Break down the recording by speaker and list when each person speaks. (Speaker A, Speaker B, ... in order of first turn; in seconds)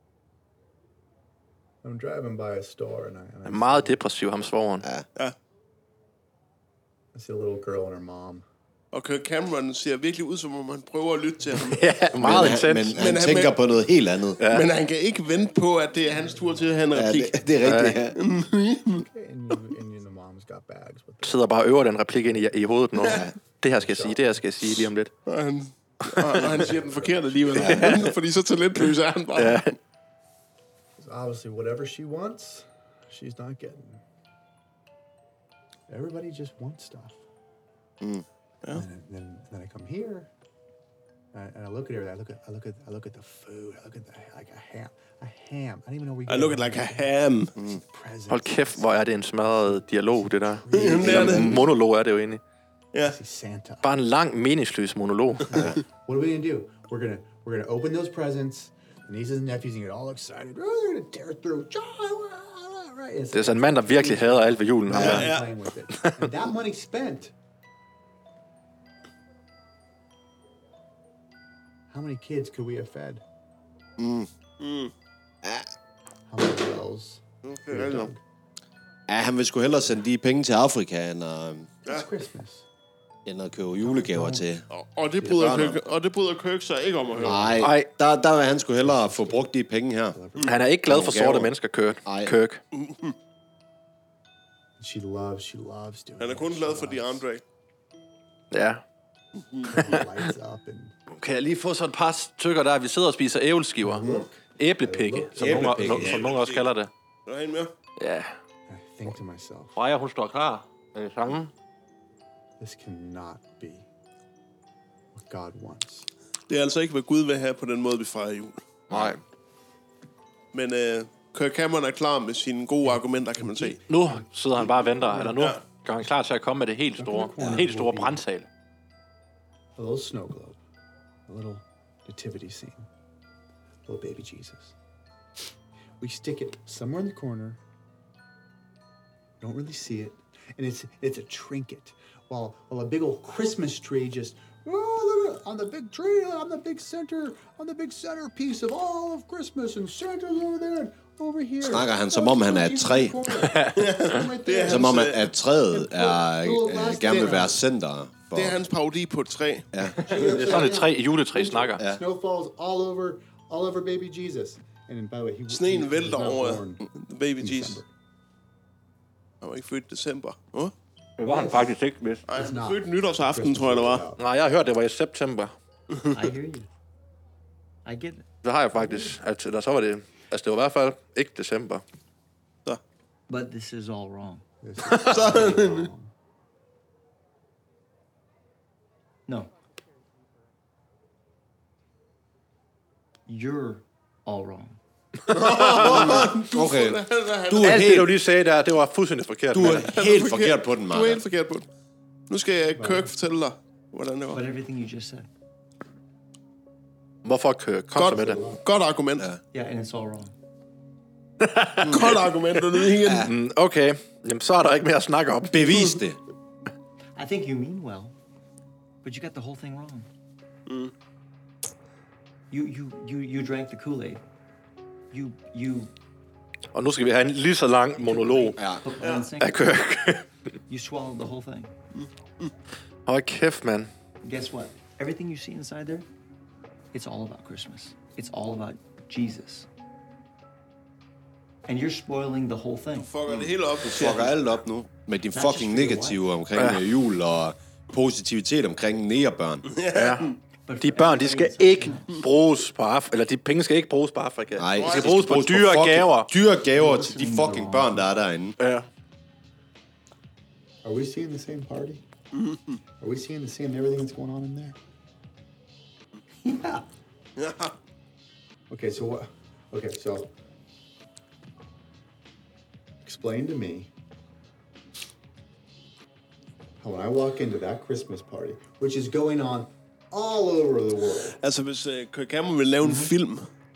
Speaker A: 1.8-4.0, 7.1-8.4, 16.1-16.8, 19.0-21.4, 23.6-24.4, 26.4-27.6, 31.0-34.0, 35.9-37.2, 38.7-40.3, 41.3-48.9, 49.5-51.7, 53.0-53.9, 55.5-67.3, 71.9-73.2, 76.3-78.2, 81.9-82.6, 83.8-84.5, 88.8-89.5, 90.1-90.6, 94.8-97.2, 99.6-100.9, 103.8-106.2, 108.7-109.8, 112.6-113.8, 115.1-116.1, 123.4-123.7, 125.0-125.3, 127.0-128.2, 129.8-130.6, 131.3-132.9, 133.8-134.7, 136.0-137.6, 139.4-155.1, 155.7-157.6, 160.0-166.8, 167.4-167.9, 171.2-171.7, 172.3-174.2, 184.6-186.1, 202.8-203.1, 208.1-208.6, 260.8-262.0, 263.0-264.8, 268.7-270.3, 273.0-273.9, 276.8-281.4
Speaker B: 3.5-4.8, 11.6-13.0, 14.4-14.7, 17.6-18.0, 21.2-25.1, 26.1-26.5, 27.6-28.1, 29.3-29.7, 48.3-52.4, 53.8-55.6, 63.3-65.3, 65.9-66.3, 87.6-87.9, 90.4-92.6, 98.5-98.8, 99.7-100.2, 101.1-104.0, 104.6-106.9, 108.0-108.3, 109.8-111.5, 118.9-119.2, 123.9-128.5, 153.4-153.8, 160.0-161.8, 171.2-172.2, 174.2-175.5, 178.4-181.8, 184.8-185.1, 195.4-196.2, 197.6-199.9, 207.2-208.4, 211.4-216.0, 226.7-228.6, 229.4-230.2, 233.1-233.9, 246.6-246.8, 249.9-256.3, 258.6-258.9
Speaker C: 8.9-11.9, 12.9-13.6, 14.5-17.6, 18.1-19.0, 23.0-23.2, 25.2-29.7, 46.3-47.5, 50.7-51.6, 64.9-65.5, 74.6-74.9, 77.4-78.1, 84.7-87.6, 92.7-93.1, 96.2-97.4, 99.4-99.7, 105.5-106.7, 107.2-107.7, 116.5-118.6, 120.5-123.8, 125.2-125.6, 153.7-155.3, 158.3-159.7, 165.5-167.8, 169.4-170.7, 172.3-174.1, 184.9-185.9, 195.3-198.0, 199.5-201.7, 202.3-204.4, 207.9-209.3, 211.8-213.3, 220.7-220.9, 229.0-229.3, 232.0-232.5, 242.9-244.3, 249.7-250.3, 254.7-255.2, 262.3-262.8, 267.4-267.7, 281.4-283.5
Speaker D: 12.2-14.4, 16.9-18.2, 23.0-23.3, 27.6-28.0, 65.0-65.2, 74.0-74.3, 75.4-75.7, 79.1-81.7, 83.2-84.6, 85.2-85.8, 87.2-90.2, 90.8-91.5, 92.0-92.3, 105.4-106.2, 118.9-119.2, 151.6-153.2, 154.6-158.6, 159.7-160.6, 195.8-198.2, 199.5-201.2, 213.0-213.3, 215.4-216.2, 228.6-228.8, 243.3-249.7, 254.6-258.6
Speaker E: 176.1-176.7, 177.8-178.2, 178.8-179.1, 183.3-184.4, 193.3-194.8, 204.3-205.3, 209.5-210.3, 217.2-218.1, 219.0-220.1, 222.5-224.2, 225.1-225.9, 228.0-229.7, 230.7-231.7, 234.2-236.0, 236.9-239.6, 241.7-243.1, 245.3-246.3, 250.7-252.2, 256.7-258.1